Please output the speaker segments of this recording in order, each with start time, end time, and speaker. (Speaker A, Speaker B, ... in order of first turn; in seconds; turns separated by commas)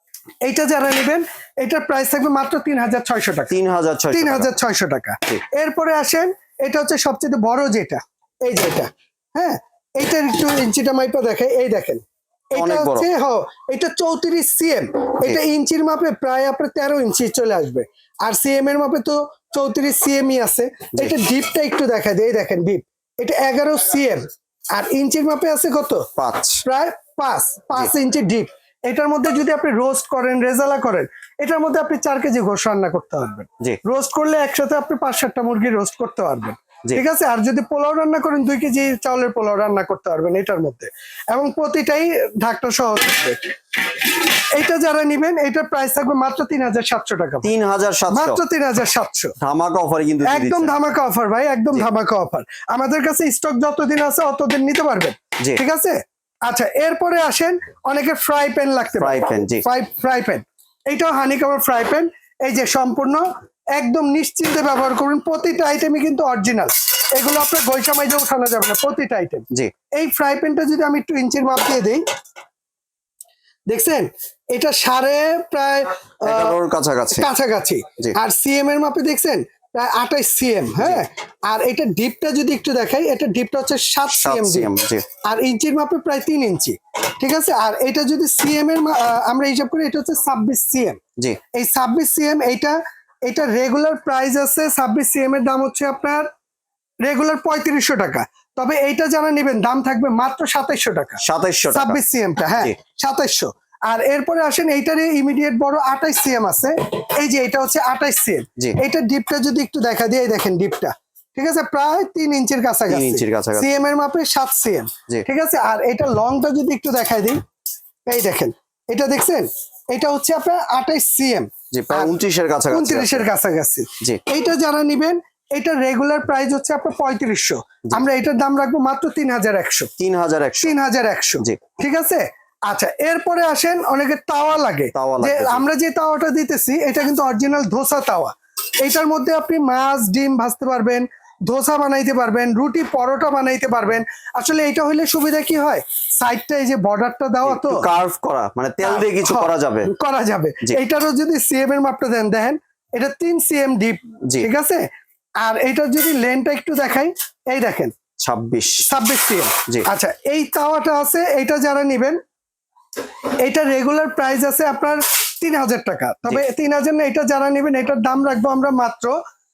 Speaker A: 0.5-3.6, Speaker B: 3.5-4.5, Speaker A: 4.1-26.1, Speaker B: 12.6-13.1, Speaker B: 26.2-26.6, Speaker A: 26.6-47.5, Speaker B: 47.4-48.4, Speaker A: 48.1-49.3, Speaker B: 49.4-50.7, Speaker A: 50.2-69.5, Speaker B: 59.0-59.6, Speaker A: 70.0-72.0, Speaker A: 73.7-76.6, Speaker B: 76.2-77.3, Speaker A: 77.1-84.7, Speaker B: 84.1-85.0, Speaker A: 85.3-91.0, Speaker A: 91.5-96.3, Speaker A: 97.0-101.2, Speaker B: 101.2-102.0, Speaker A: 101.7-117.4, Speaker B: 112.9-113.7, Speaker A: 118.1-122.2, Speaker B: 121.7-123.3, Speaker A: 122.7-129.9, Speaker B: 130.0-130.7, Speaker A: 130.6-147.9, Speaker B: 134.9-135.7, Speaker B: 147.4-149.9, Speaker A: 148.8-154.8, Speaker A: 155.4-157.9, Speaker B: 158.2-158.9, Speaker A: 158.9-162.2, Speaker A: 163.4-169.1